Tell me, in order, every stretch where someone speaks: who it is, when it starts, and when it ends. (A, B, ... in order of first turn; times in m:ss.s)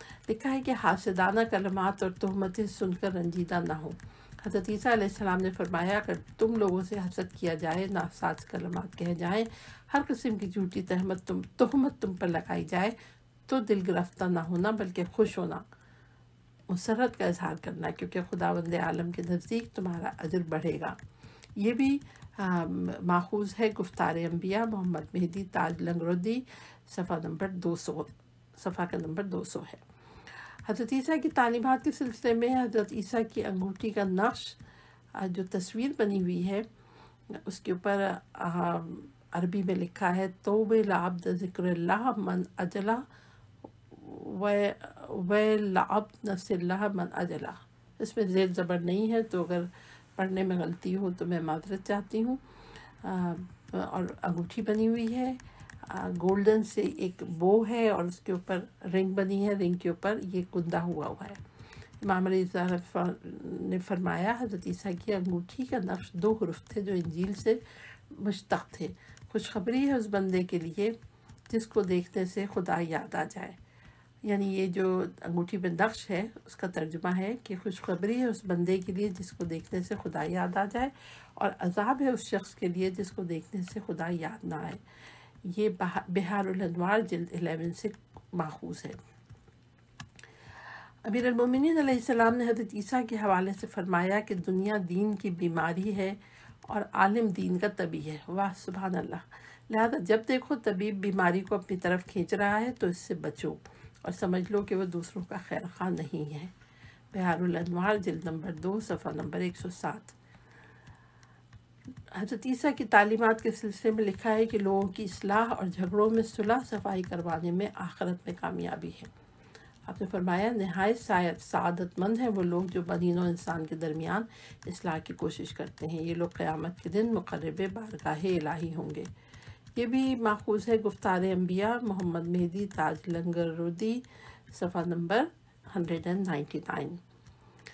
0:00.3-0:12.9 A
0:13.5-0:15.6 A
0:16.7-0:21.0 A
0:21.6-0:29.8 A
0:30.7-0:34.6 A
0:35.2-0:36.7 A
0:37.3-0:43.0 A
0:43.9-0:52.4 A
0:53.0-1:01.4 A
1:02.0-1:07.6 A
1:08.1-1:11.0 A
1:11.5-1:13.6 A
1:14.2-1:24.8 A
1:25.4-1:29.0 A
1:31.1-1:46.5 A
1:47.1-1:50.2 A
1:52.1-1:59.1 A
1:59.9-2:09.1 A
2:09.8-2:17.0 A